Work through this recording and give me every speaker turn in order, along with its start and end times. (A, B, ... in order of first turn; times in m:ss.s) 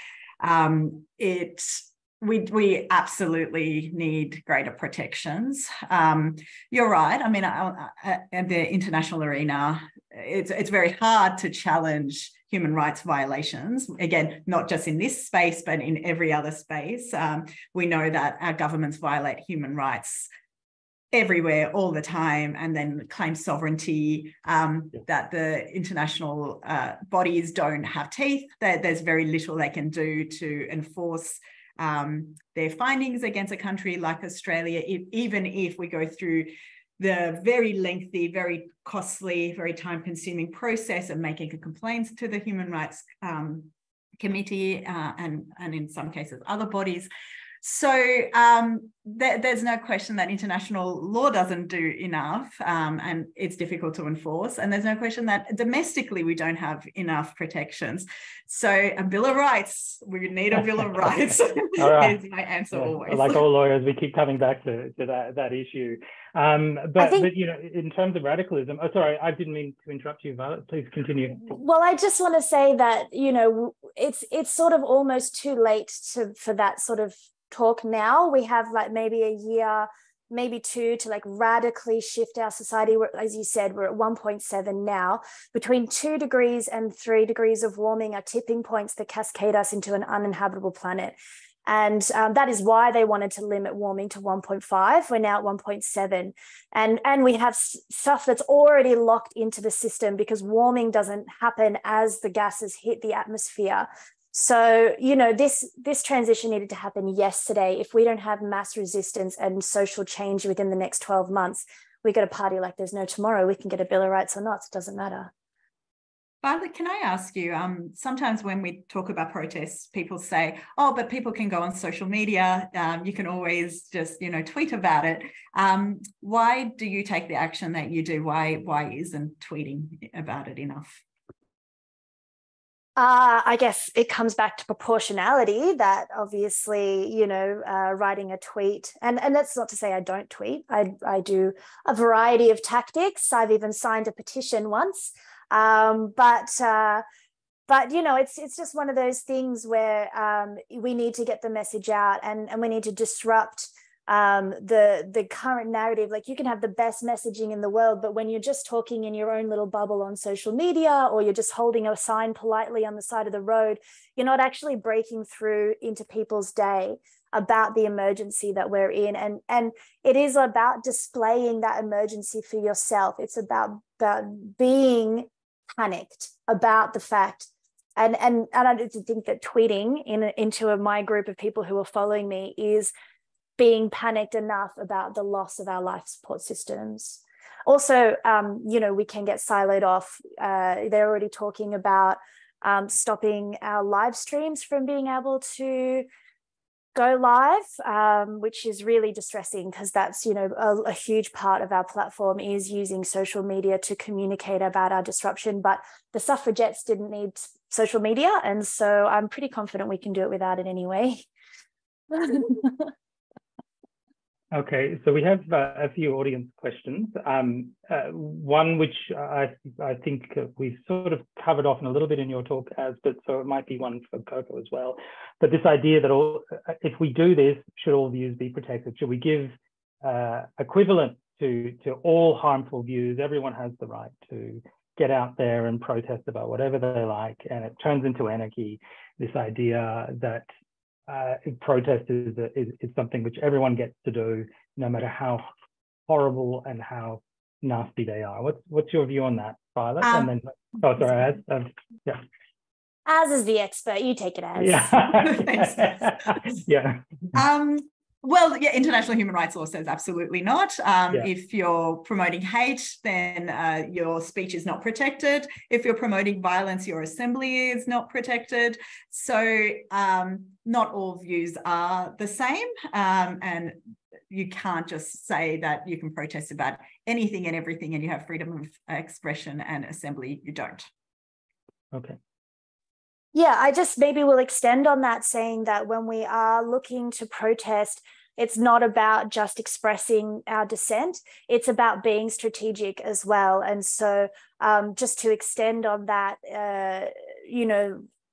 0:00.4-0:20.3 A
0:21.1-0:47.1 A
0:47.6-1:03.4 A
1:01.8-1:02.2 B
1:02.7-1:11.5 B
1:07.0-1:07.3 C
1:11.5-1:55.3 C
1:56.4-2:11.0 A
2:13.0-2:27.0 C
2:27.7-3:02.9 C
3:03.6-3:16.1 C
3:17.0-3:31.3 C
3:32.1-3:32.9 C
3:34.5-4:00.5 B
4:01.1-4:05.4 B
4:06.1-4:12.2 B
4:10.0-4:10.3 A
4:13.1-4:15.0 C
4:14.6-4:17.1 B
4:15.1-4:16.4 A
4:17.3-4:33.8 A
4:34.3-4:40.9 A
4:41.9-4:42.2 B
4:43.3-4:58.1 C